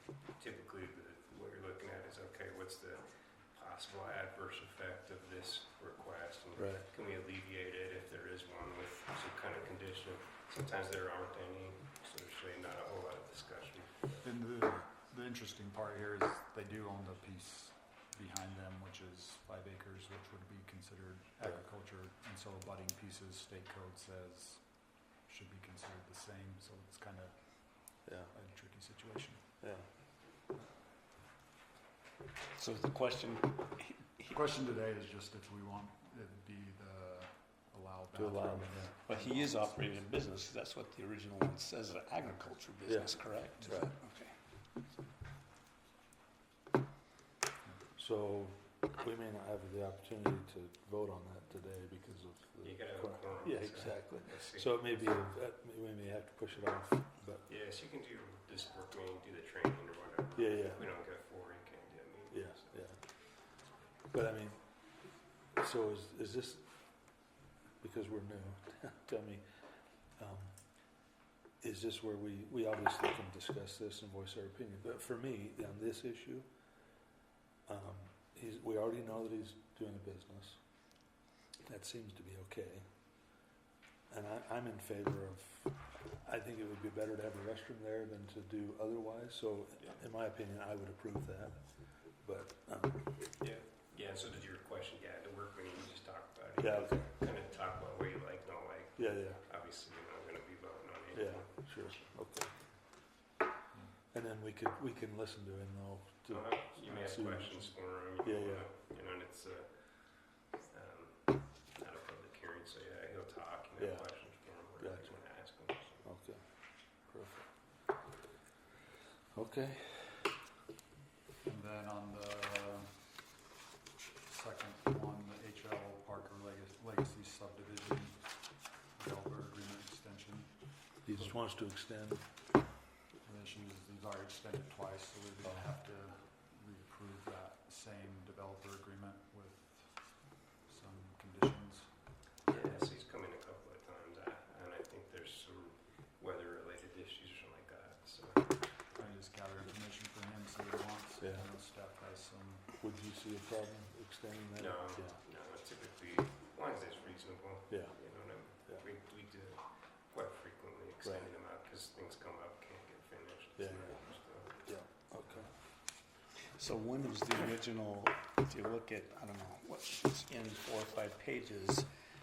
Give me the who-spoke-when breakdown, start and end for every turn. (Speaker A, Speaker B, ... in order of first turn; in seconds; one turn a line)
Speaker A: 0.3-14.3
Speaker B: 6.6-6.8
Speaker C: 14.2-29.6
Speaker B: 28.1-28.3
Speaker B: 29.6-29.9
Speaker C: 30.5-30.8
Speaker D: 32.6-34.4
Speaker C: 34.3-40.0
Speaker B: 38.1-38.9
Speaker D: 39.1-44.4
Speaker B: 42.9-43.9
Speaker C: 43.6-43.9
Speaker B: 48.0-57.5
Speaker A: 52.6-55.2
Speaker A: 57.5-62.6
Speaker B: 60.4-60.9
Speaker B: 62.3-63.0
Speaker B: 64.1-64.6
Speaker B: 65.6-66.7
Speaker B: 67.8-69.4
Speaker B: 70.2-70.5
Speaker B: 71.6-76.5
Speaker B: 77.7-80.6
Speaker B: 81.7-82.8
Speaker B: 84.1-91.6
Speaker B: 92.2-93.1
Speaker A: 93.4-102.1
Speaker B: 96.6-97.1
Speaker B: 99.0-99.4
Speaker B: 101.1-102.5
Speaker B: 104.1-107.7
Speaker A: 106.3-109.7
Speaker B: 108.2-108.7
Speaker A: 110.7-116.0
Speaker B: 113.8-114.1
Speaker B: 114.8-115.2
Speaker B: 116.0-116.4
Speaker B: 117.1-117.5
Speaker B: 119.3-120.1
Speaker C: 121.4-123.2
Speaker C: 124.3-131.3
Speaker B: 131.1-132.2
Speaker C: 133.2-141.9
Speaker A: 142.5-148.5
Speaker C: 148.9-152.7
Speaker B: 151.2-151.4
Speaker B: 152.8-155.2
Speaker A: 154.6-164.6
Speaker B: 157.7-158.0
Speaker B: 163.6-164.0
Speaker B: 164.6-165.5
Speaker D: 166.6-171.9